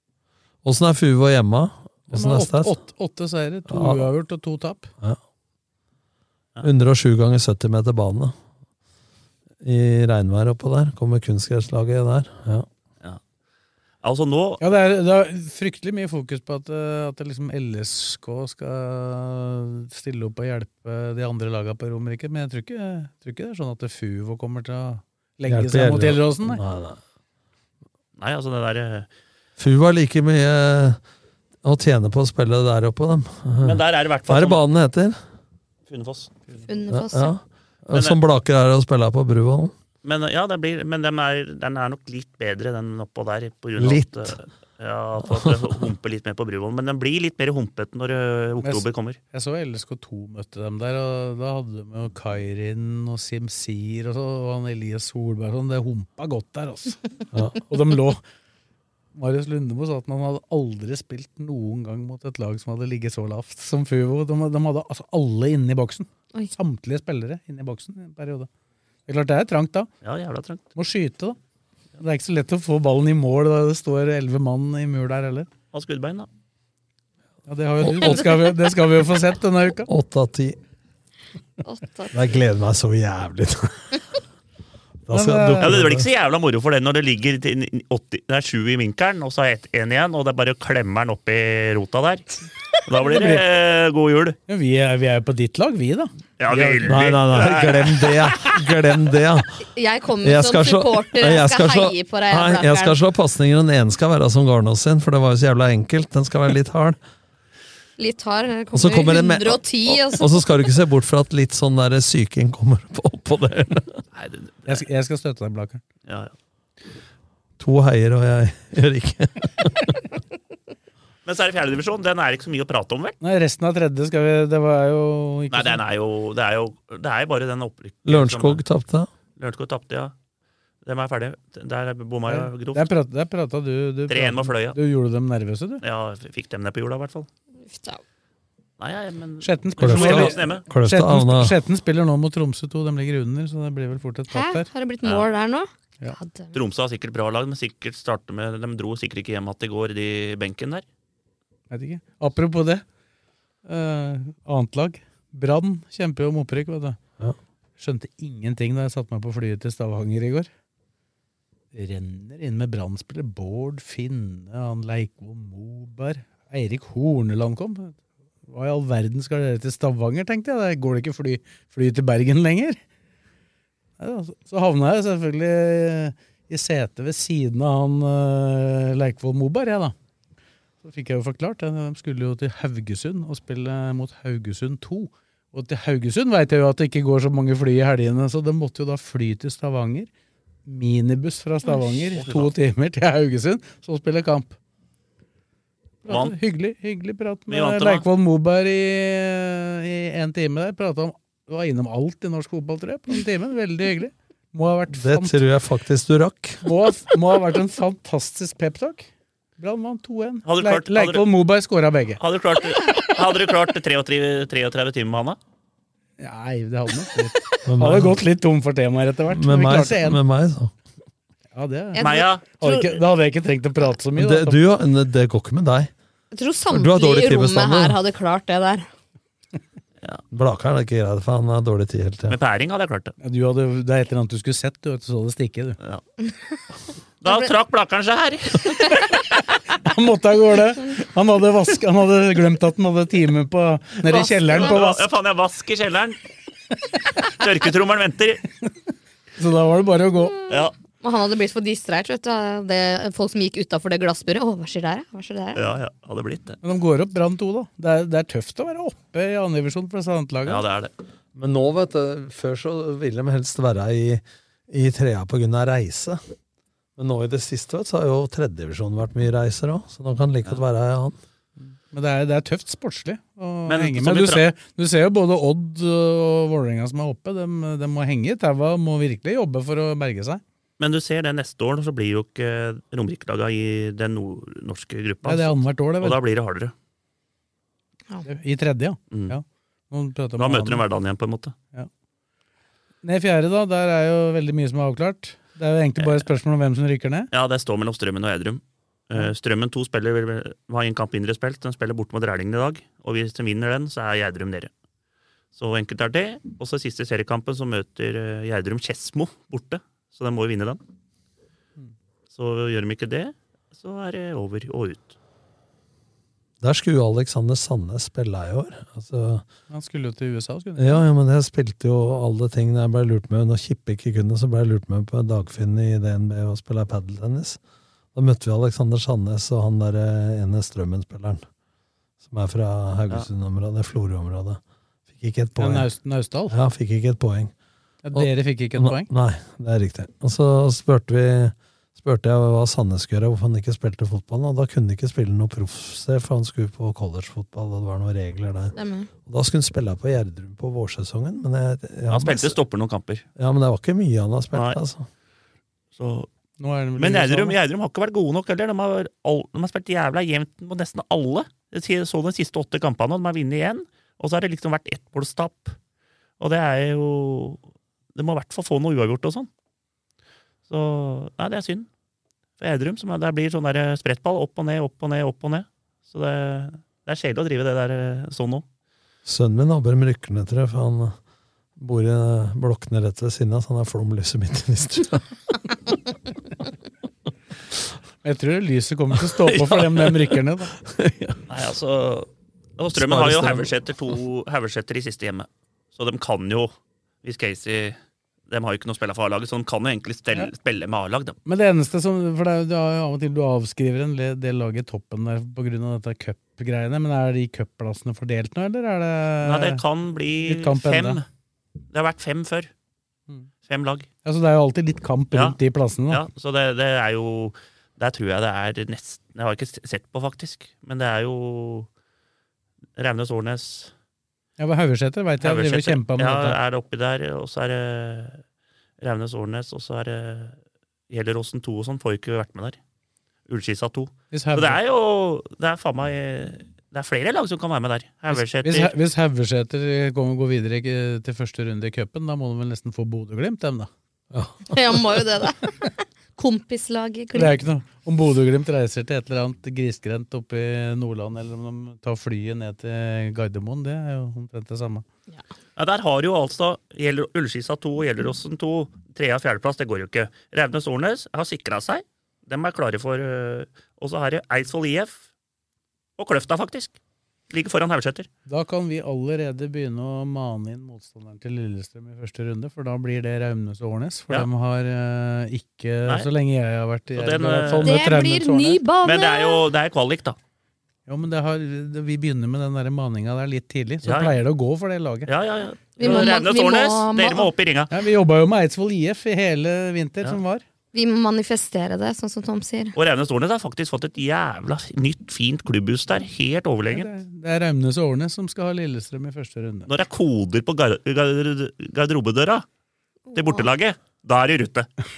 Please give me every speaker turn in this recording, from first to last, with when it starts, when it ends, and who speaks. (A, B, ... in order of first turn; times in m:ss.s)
0:00.6-0:02.8 A
0:02.1-0:04.9 B
0:03.7-0:04.1 A
0:06.6-0:08.3 A
0:09.6-0:12.7 A
0:14.0-0:14.6 C
0:14.6-0:26.6 B
0:25.4-0:27.0 A
0:28.2-0:29.1 C
0:29.6-0:31.0 A
0:31.6-0:35.2 A
0:33.6-0:34.6 C
0:35.9-0:36.3 C
0:36.7-0:37.3 D
0:36.9-0:39.7 A
0:37.9-0:38.2 C
0:40.0-0:49.2 C
0:43.8-0:44.4 A
0:45.2-0:45.8 A
0:48.6-0:57.0 B
0:57.3-0:57.6 A
0:57.7-0:58.2 B
0:59.1-1:08.5 B
1:09.1-1:09.9 B
1:10.0-1:10.7 C
1:10.8-1:11.4 B
1:12.0-1:15.5 B
1:15.7-1:16.3 C
1:17.5-1:19.9 B
1:17.8-1:18.2 A
1:19.8-1:20.6 A
1:21.6-1:22.3 D
1:22.1-1:24.0 A
1:25.0-1:26.0 A
1:25.1-1:25.8 B
1:25.6-1:32.3 C
1:32.8-1:34.4 C
1:33.1-1:33.4 A
1:34.5-1:37.0 B
1:36.4-1:38.6 C
1:36.8-1:39.6 A
1:39.8-1:43.0 D
1:40.2-1:47.0 A
1:48.0-1:50.3 D
1:48.7-1:54.0 A
1:54.1-1:54.8 C
1:54.7-1:55.8 B
1:56.1-1:56.3 C
1:57.6-2:00.0 A
2:01.2-2:03.2 C
2:03.2-2:05.8 B
2:05.5-2:08.6 C
2:08.0-2:09.1 A
2:09.4-2:10.1 C
2:10.8-2:12.9 C
2:12.3-2:15.8 B
2:14.1-2:14.8 C
2:15.8-2:17.3 C
2:17.6-2:18.0 D
2:18.8-2:20.6 C
2:19.4-2:24.7 B
2:19.8-2:21.5 A
2:24.3-2:26.5 D
2:25.0-2:25.3 C
2:26.5-2:30.8 C
2:31.7-2:32.8 B
2:33.6-2:37.0 B
2:37.8-2:40.5 B
2:41.7-2:52.8 B
2:54.0-2:59.9 B
3:00.8-3:10.1 B
3:10.6-3:14.6 B
3:12.2-3:12.5 C
3:16.0-3:25.4 B
3:16.1-3:16.3 C
3:17.5-3:18.0 C
3:24.9-3:26.7 A
3:26.6-3:29.1 B
3:29.6-3:32.2 B
3:30.4-3:31.2 C
3:32.2-3:35.4 C
3:36.2-3:40.2 B
3:37.6-3:38.2 A
3:39.3-3:40.7 A
3:41.5-3:44.6 B
3:41.9-3:43.0 D
3:42.0-3:42.4 C
3:44.2-3:45.9 A
3:46.3-3:48.9 D
3:46.7-3:48.0 A
3:50.3-3:52.4 A
3:52.3-3:53.1 C
3:53.2-3:55.8 B
3:57.2-3:59.3 C
3:59.7-4:05.0 B
4:04.1-4:04.6 D
4:04.2-4:06.2 C
4:07.2-4:08.4 C
4:09.4-4:10.3 B
4:10.5-4:10.7 C
4:11.0-4:15.6 D
4:15.5-4:16.6 C
4:16.6-4:20.6 B
4:20.4-4:20.9 C
4:21.3-4:26.2 A
4:27.0-4:31.2 A
4:31.6-4:40.4 B
4:33.7-4:34.4 C
4:40.8-4:46.7 C
4:45.2-4:46.2 B
4:48.2-4:50.8 B
4:50.4-4:51.5 C
4:53.0-4:57.3 B
4:56.0-4:56.3 C
4:57.3-5:04.7 C
5:05.5-5:10.8 C
5:12.3-5:15.1 C
5:16.6-5:19.4 A
5:19.7-5:21.0 B
5:20.8-5:27.6 A
5:28.1-5:31.4 A
5:32.2-5:34.6 A
5:35.1-5:35.9 A
5:35.6-5:36.6 B
5:36.5-5:37.5 A
5:38.0-5:39.1 B
5:38.1-5:48.7 A
5:48.7-5:49.1 D
5:49.2-5:52.6 A
5:52.1-5:53.2 C
5:53.4-5:55.1 A
5:54.5-5:54.8 C
5:56.0-5:56.3 C
5:56.6-5:57.6 B
5:57.0-6:05.8 C
6:06.4-6:07.6 C
6:08.1-6:09.5 C
6:10.7-6:11.9 C
6:12.6-6:18.6 C
6:19.2-6:21.2 A
6:21.8-6:26.0 A
6:28.2-6:30.7 B
6:29.1-6:31.4 A
6:31.5-6:36.7 C
6:32.9-6:33.7 A
6:37.2-6:38.0 C
6:38.5-6:41.4 C
6:41.4-6:49.8 B
6:49.4-6:51.2 C
6:50.4-6:51.2 B
6:51.9-6:52.7 C
6:53.6-6:54.1 C
6:54.2-6:56.2 B
6:56.1-7:01.9 C
7:03.0-7:03.9 C
7:04.6-7:06.6 B
7:05.4-7:08.4 C
7:09.0-7:10.6 C
7:11.1-7:12.8 C
7:13.5-7:18.9 C
7:14.3-7:14.8 B
7:18.3-7:23.9 B
7:24.3-7:25.0 A
7:24.7-7:27.6 D
7:27.3-7:35.0 B
7:35.8-7:45.2 C
7:46.2-7:47.0 C
7:47.5-7:48.3 C
7:48.4-7:58.8 B
7:57.2-7:58.0 C
7:57.8-7:59.6 D
7:59.0-8:00.4 C
8:01.1-8:05.3 B
8:04.0-8:04.4 C
8:05.3-8:07.9 C
8:06.0-8:07.5 D
8:07.9-8:10.6 B
8:10.9-8:12.9 D
8:12.9-8:17.1 C
8:16.9-8:19.9 B
8:19.9-8:22.6 C
8:23.3-8:23.7 D
8:23.3-8:24.9 C